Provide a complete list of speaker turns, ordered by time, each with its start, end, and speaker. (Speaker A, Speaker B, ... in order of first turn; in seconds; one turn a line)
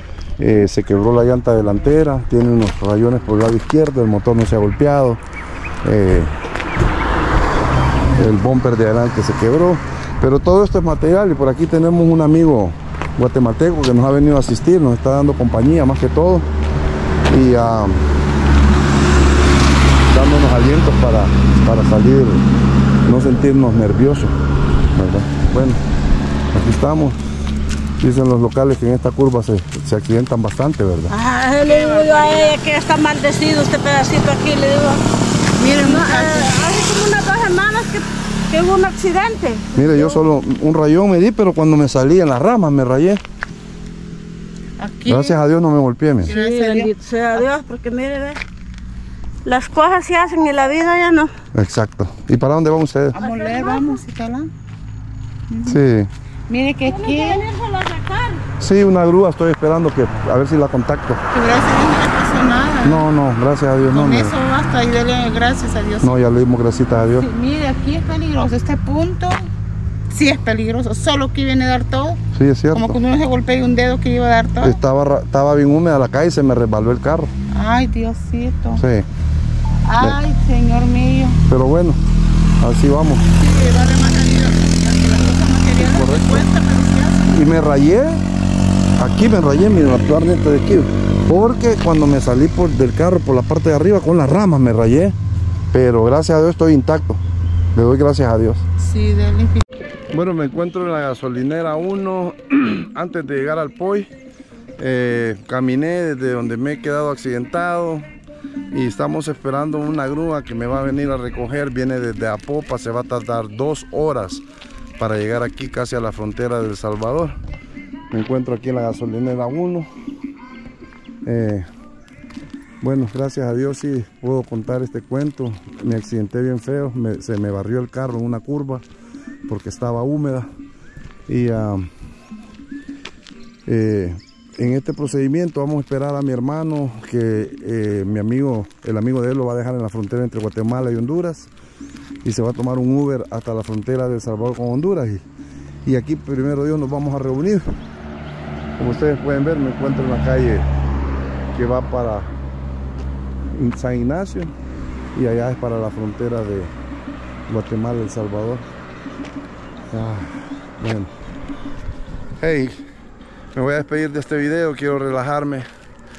Speaker A: 0.4-5.2
Speaker A: 5.8-6.4
Speaker A: 8.2-16.5
Speaker A: 17.3-18.1
Speaker A: 20.1-22.5
Speaker A: 23.0-24.4
Speaker A: 24.9-25.8
Speaker A: 26.5-27.2
Speaker A: 28.0-31.1
Speaker B: 31.1-35.0
Speaker C: 35.6-36.5
Speaker B: 35.8-40.2
Speaker A: 39.8-43.2
Speaker C: 44.8-45.4
Speaker A: 45.1-46.3
Speaker C: 46.2-47.4
Speaker B: 46.3-48.4
Speaker B: 49.4-51.3
Speaker A: 51.5-53.2
Speaker C: 53.1-54.5
Speaker B: 53.2-54.0
Speaker C: 55.5-55.8
Speaker A: 55.6-56.1
Speaker C: 56.5-57.4
Speaker B: 56.9-58.4
Speaker A: 58.6-61.2
Speaker C: 61.3-63.0
Speaker A: 62.8-64.4
Speaker C: 63.9-66.2
Speaker A: 66.0-67.3
Speaker C: 67.1-69.5
Speaker C: 70.1-72.2
Speaker A: 72.3-73.0
Speaker C: 72.7-74.8
Speaker A: 74.6-77.3
Speaker C: 77.5-78.8
Speaker A: 78.8-79.1
Speaker C: 79.8-81.4
Speaker A: 81.5-82.0
Speaker A: 82.6-83.3
Speaker C: 83.4-87.4
Speaker A: 85.8-86.5
Speaker A: 87.3-88.2
Speaker A: 89.0-95.2
Speaker A: 95.7-97.2
Speaker A: 97.8-98.7
Speaker C: 98.8-99.7
Speaker A: 100.1-104.1
Speaker A: 104.8-108.0
Speaker A: 108.7-114.4
Speaker A: 115.0-117.4
Speaker A: 118.1-119.9
Speaker A: 121.2-121.7
Speaker A: 122.8-128.8
Speaker A: 129.5-130.5
Speaker A: 131.3-131.9
Speaker A: 133.7-141.5
Speaker A: 142.2-145.2
Speaker A: 145.8-147.8
Speaker A: 148.8-150.7
Speaker A: 151.5-152.3
Speaker A: 153.5-154.5
Speaker A: 155.1-156.7
Speaker A: 157.5-158.7
Speaker A: 159.9-161.1
Speaker A: 162.4-162.8
Speaker A: 163.5-165.7